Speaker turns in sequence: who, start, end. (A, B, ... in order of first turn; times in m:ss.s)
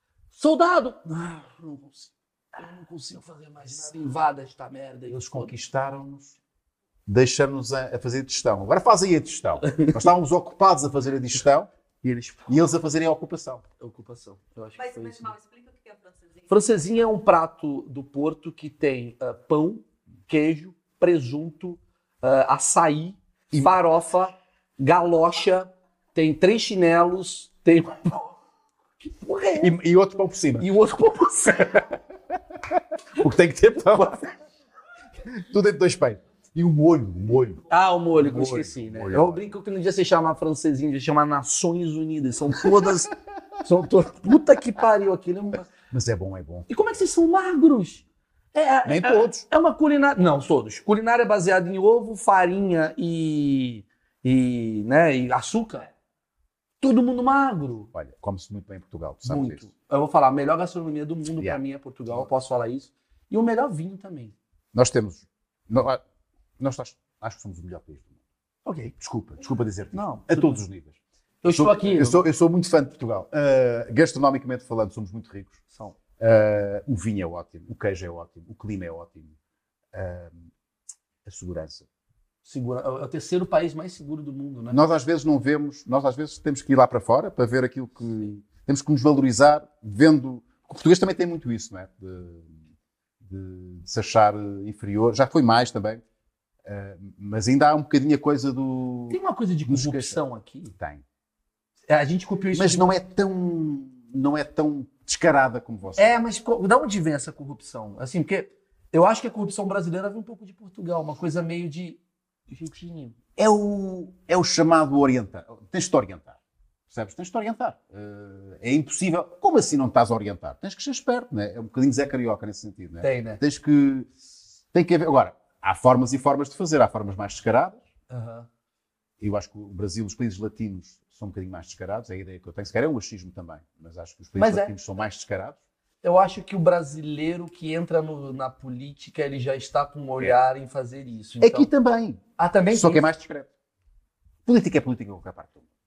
0:00.3-0:05.6 A
0:05.1-0:06.4 B
0:07.1-0:11.7 B
0:09.7-0:10.0 A
0:12.0-0:12.6 A
0:12.5-0:13.6 B
0:13.8-0:15.3 A
0:14.8-0:16.8 C
0:16.5-0:28.4 A
0:29.0-0:29.8 A
0:29.6-0:30.7 B
0:30.6-0:31.9 A
0:33.2-0:34.3 B
0:35.3-0:39.5 B
0:37.7-0:45.7 A
0:42.6-0:43.0 B
0:45.9-0:46.9 B
0:46.7-0:55.9 A
0:48.8-0:49.4 B
0:56.8-0:57.9 A
0:57.9-0:59.6 B
0:59.3-1:04.3 A
1:01.4-1:02.3 B
1:04.7-1:06.0 B
1:06.6-1:08.2 B
1:08.6-1:08.9 A
1:08.9-1:11.0 B
1:09.9-1:10.5 A
1:11.4-1:12.2 A
1:11.5-1:15.6 B
1:15.7-1:16.0 A
1:16.2-1:19.4 B
1:19.9-1:20.5 B
1:21.2-1:21.9 B
1:22.4-1:24.8 A
1:24.7-1:32.6 B
1:33.2-1:36.0 B
1:36.6-1:40.2 B
1:39.1-1:40.7 A
1:40.7-1:41.0 B
1:41.9-1:42.9 A
1:42.5-1:46.1 B
1:46.0-1:53.2 A
1:53.4-2:04.1 B
2:03.0-2:03.4 A
2:04.7-2:07.8 B
2:08.1-2:08.5 A
2:09.2-2:15.6 B
2:14.4-2:14.7 A
2:16.0-2:21.7 A
2:21.4-2:23.5 B
2:22.4-2:23.1 A
2:24.5-2:25.7 B